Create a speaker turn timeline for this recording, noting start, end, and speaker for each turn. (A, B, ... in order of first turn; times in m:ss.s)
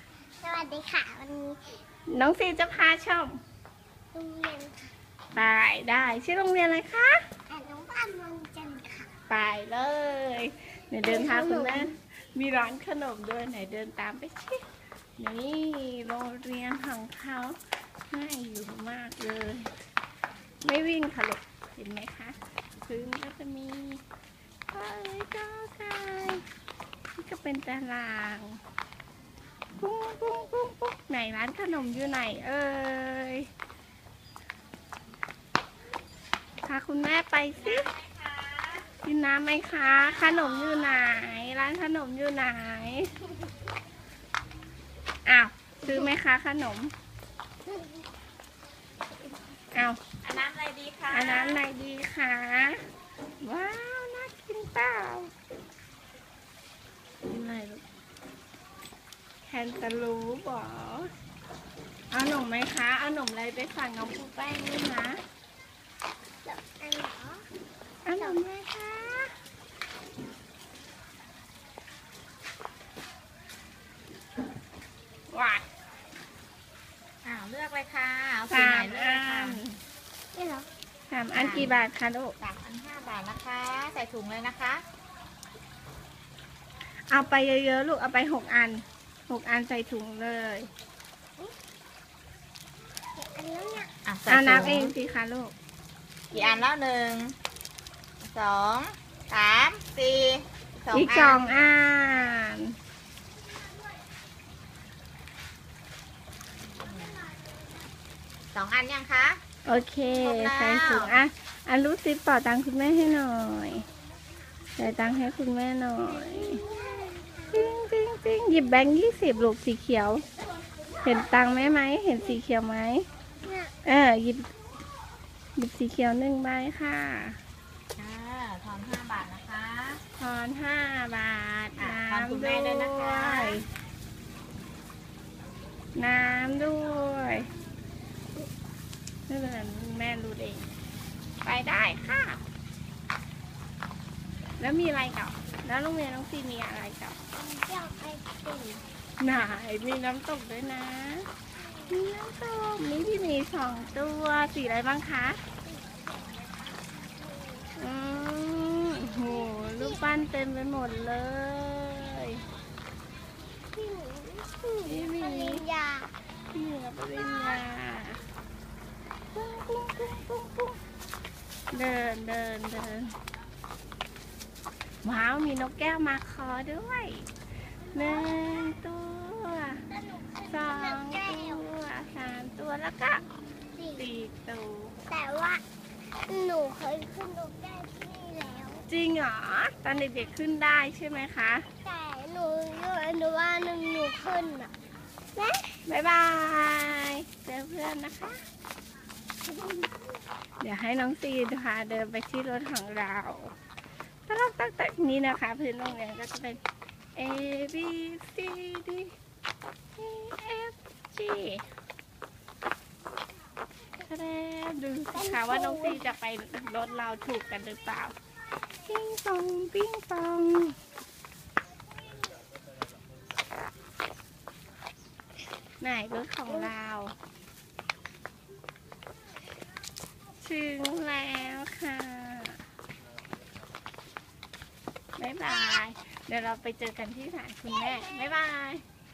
0:00.4-0:01.6 A
0:02.1-0:03.4 B
0:04.1-0:04.9 A
0:05.3-0:07.2 B
0:07.5-0:09.1 A
0:09.3-0:14.6 B
0:11.1-0:11.9 A
0:15.2-0:17.6 B
0:18.1-0:19.7 B
0:20.6-0:24.0 B
0:24.7-0:26.4 B
0:27.2-0:28.6 B
0:29.8-0:33.5 B
0:36.6-0:37.9 B
0:37.6-0:38.8 C
0:39.0-0:43.1 B
0:40.3-0:40.9 C
0:45.2-0:46.9 B
0:47.6-0:48.0 A
0:49.7-0:50.0 B
0:50.2-0:51.6 C
0:51.1-0:52.8 B
0:53.4-0:55.3 B
0:57.3-0:57.8 B
0:59.4-1:01.1 B
1:02.1-1:05.2 B
1:06.4-1:07.4 A
1:08.0-1:09.3 B
1:15.3-1:15.6 B
1:17.2-1:19.6 C
1:18.5-1:19.8 B
1:20.3-1:20.7 A
1:21.1-1:22.4 B
1:21.3-1:21.8 C
1:22.4-1:24.8 C
1:27.1-1:30.7 B
1:33.2-1:33.9 A
1:34.0-1:34.9 C
1:34.3-1:35.5 B
1:36.3-1:36.7 A
1:36.3-1:37.4 C
1:38.2-1:41.6 C
1:40.9-1:42.7 B
1:46.8-1:47.2 C
1:48.5-1:49.4 C
1:49.6-1:53.8 B
1:50.1-1:51.2 C
1:54.8-1:56.6 B
1:56.2-1:57.6 A
1:57.5-2:00.2 B
2:01.0-2:03.0 B
2:03.4-2:03.7 A
2:03.8-2:04.5 B
2:05.6-2:07.4 B
2:08.0-2:10.0 C
2:10.2-2:13.6 B
2:11.8-2:13.6 C
2:16.0-2:17.5 B
2:19.3-2:20.7 B
2:21.4-2:22.4 B
2:24.6-2:27.2 B
2:27.3-2:28.8 A
2:29.2-2:31.3 B
2:31.6-2:32.0 A
2:31.9-2:35.4 B
2:35.6-2:36.2 A
2:37.2-2:37.7 A
2:37.8-2:42.4 B
2:39.8-2:40.2 A
2:43.7-2:46.1 A
2:44.8-2:45.6 B
2:46.5-2:48.2 B
2:49.3-2:50.8 B
2:51.7-2:53.1 B
2:55.0-2:57.3 B
2:57.9-2:59.8 B
2:57.9-2:58.3 A
2:59.9-3:01.7 A
3:00.5-3:03.2 B
3:03.7-3:04.1 A
3:04.0-3:05.0 B
3:05.1-3:05.6 A
3:06.2-3:08.8 A
3:08.9-3:11.6 B
3:11.8-3:14.7 A
3:15.3-3:15.8 A
3:15.8-3:18.4 B
3:20.6-3:23.5 B
3:24.3-3:26.6 B
3:27.2-3:29.1 B
3:30.0-3:31.6 B
3:34.0-3:38.1 B
3:35.1-3:36.1 A
3:38.8-3:40.8 B
3:45.8-3:47.1 B
3:50.4-3:52.6 B
3:55.2-3:58.8 B
3:57.7-3:58.4 A